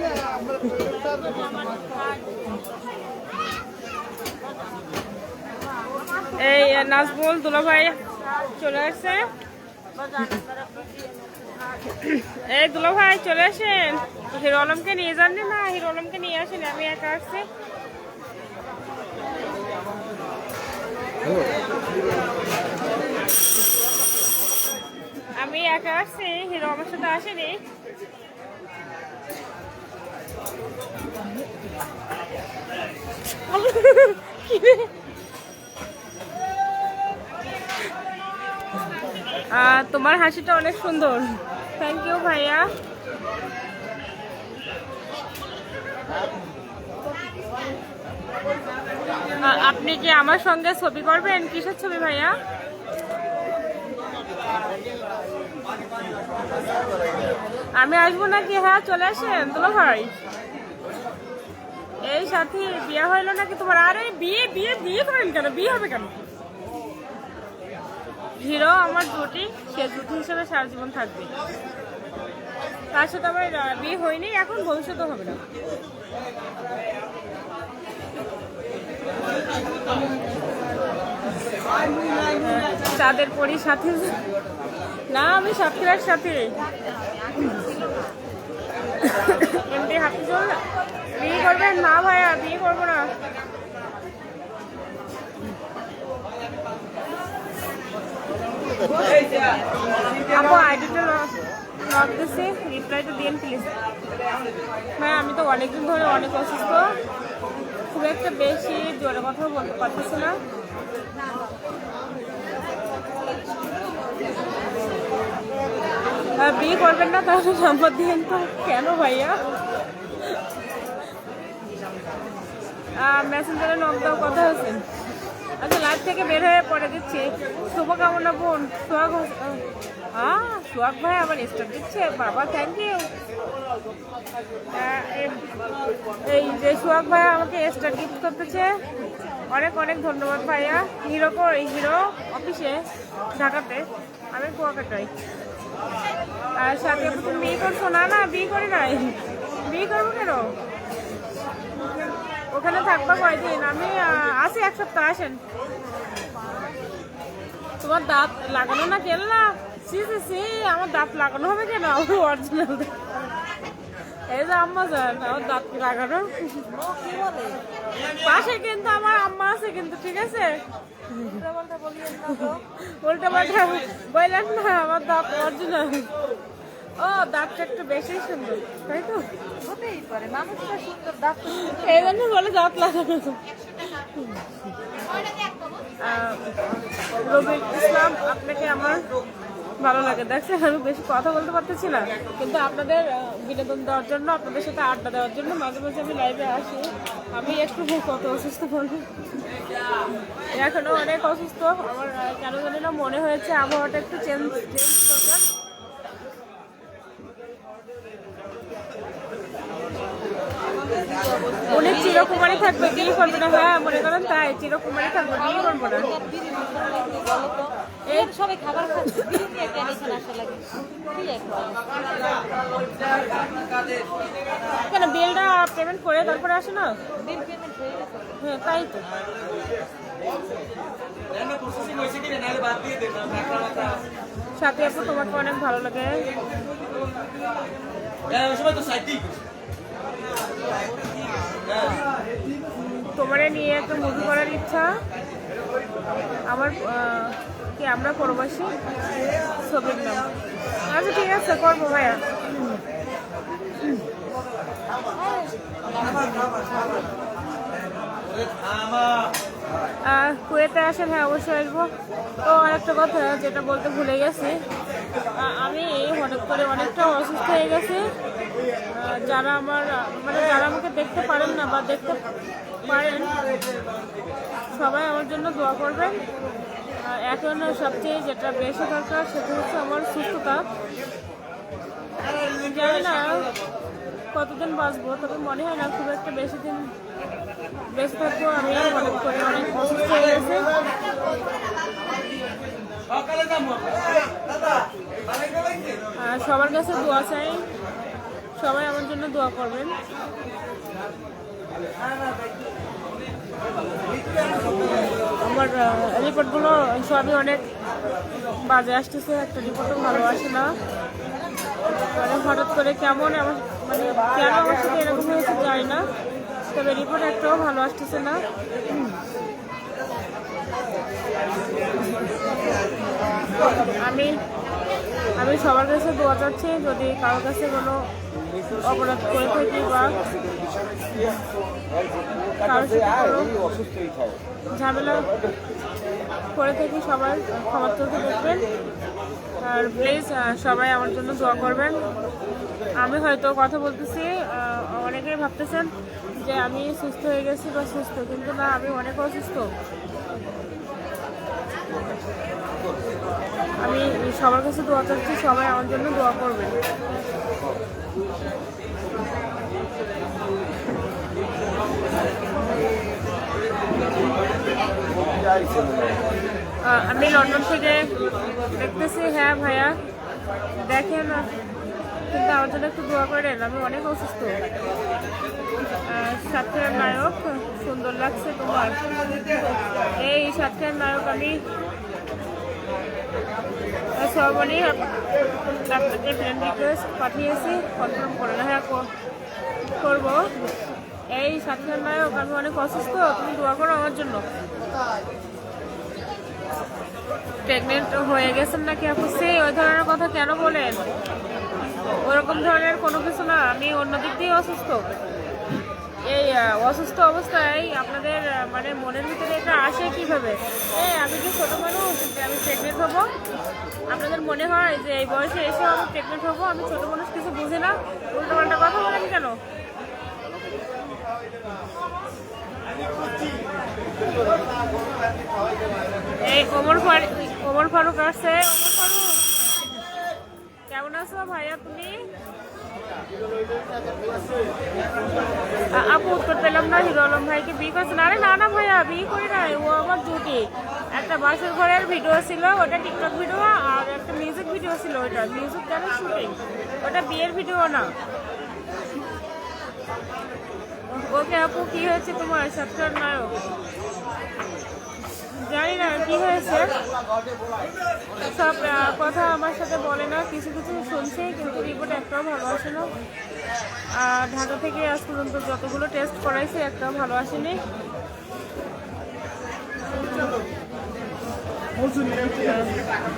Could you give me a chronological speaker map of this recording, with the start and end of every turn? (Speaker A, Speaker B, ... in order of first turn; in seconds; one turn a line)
Speaker A: 6.4-9.3
Speaker B: 10.1-11.6
Speaker A: 11.9-17.4
Speaker A: 25.4-27.6
Speaker A: 33.5-34.9
Speaker A: 39.5-42.7
Speaker A: 49.4-52.3
Speaker A: 57.7-60.1
Speaker A: 62.0-66.1
Speaker A: 68.4-71.3
Speaker A: 72.9-75.4
Speaker A: 82.4-84.2
Speaker A: 85.1-86.5
Speaker B: 87.4-87.7
Speaker A: 89.0-90.6
Speaker A: 91.1-93.1
Speaker B: 98.9-99.5
Speaker A: 100.3-101.3
Speaker A: 101.8-103.7
Speaker A: 105.0-106.9
Speaker A: 107.9-110.4
Speaker A: 116.4-119.4
Speaker A: 122.9-124.8
Speaker A: 125.6-133.1
Speaker A: 134.7-135.4
Speaker A: 136.2-138.8
Speaker A: 139.5-142.8
Speaker A: 143.3-145.1
Speaker A: 146.6-150.5
Speaker A: 152.5-155.4
Speaker A: 157.8-162.9
Speaker A: 164.3-166.7
Speaker B: 166.7-167.6
Speaker A: 168.2-171.4
Speaker B: 171.3-172.6
Speaker A: 172.8-176.1
Speaker A: 177.0-179.2
Speaker B: 179.6-182.2
Speaker A: 181.5-183.4
Speaker A: 184.2-184.5
Speaker A: 186.0-186.4
Speaker A: 187.2-189.0
Speaker A: 189.8-199.1
Speaker A: 200.5-205.5
Speaker B: 211.1-213.1
Speaker A: 211.7-216.1
Speaker B: 215.4-222.4
Speaker A: 224.8-227.0
Speaker B: 227.2-228.3
Speaker A: 228.4-229.1
Speaker B: 233.3-233.8
Speaker A: 234.6-236.2
Speaker A: 243.0-244.9
Speaker A: 246.4-248.7
Speaker A: 249.6-250.3
Speaker A: 250.9-252.2
Speaker B: 255.2-257.0
Speaker A: 260.0-261.9
Speaker A: 262.4-264.6
Speaker A: 265.4-268.1
Speaker A: 268.9-272.2
Speaker A: 272.8-273.4
Speaker A: 274.7-276.2
Speaker A: 277.0-280.6
Speaker A: 282.6-283.5
Speaker A: 284.3-286.9
Speaker A: 287.9-290.7
Speaker A: 296.2-297.7
Speaker A: 298.6-299.9
Speaker A: 305.4-307.6
Speaker A: 308.6-310.7
Speaker A: 312.1-316.1
Speaker A: 316.7-318.4
Speaker A: 323.9-324.4
Speaker A: 325.4-328.1
Speaker A: 328.8-330.2
Speaker A: 332.6-333.6
Speaker A: 334.7-335.3
Speaker A: 336.5-338.6
Speaker A: 339.6-342.0
Speaker A: 343.0-349.7
Speaker A: 353.8-356.7
Speaker A: 366.8-368.1
Speaker A: 368.7-369.9
Speaker A: 370.8-371.5
Speaker A: 372.3-374.6
Speaker A: 376.1-379.0
Speaker A: 380.2-381.6
Speaker A: 384.2-385.1
Speaker A: 385.9-389.1
Speaker A: 390.0-390.5
Speaker A: 391.3-394.4
Speaker A: 397.6-401.0
Speaker A: 402.2-405.0
Speaker A: 406.2-413.3
Speaker A: 414.1-419.6
Speaker A: 426.4-429.4
Speaker A: 430.9-432.2
Speaker A: 435.9-448.1
Speaker A: 451.1-453.6
Speaker A: 455.6-456.9
Speaker A: 458.5-463.1
Speaker A: 464.1-467.8
Speaker A: 472.4-472.9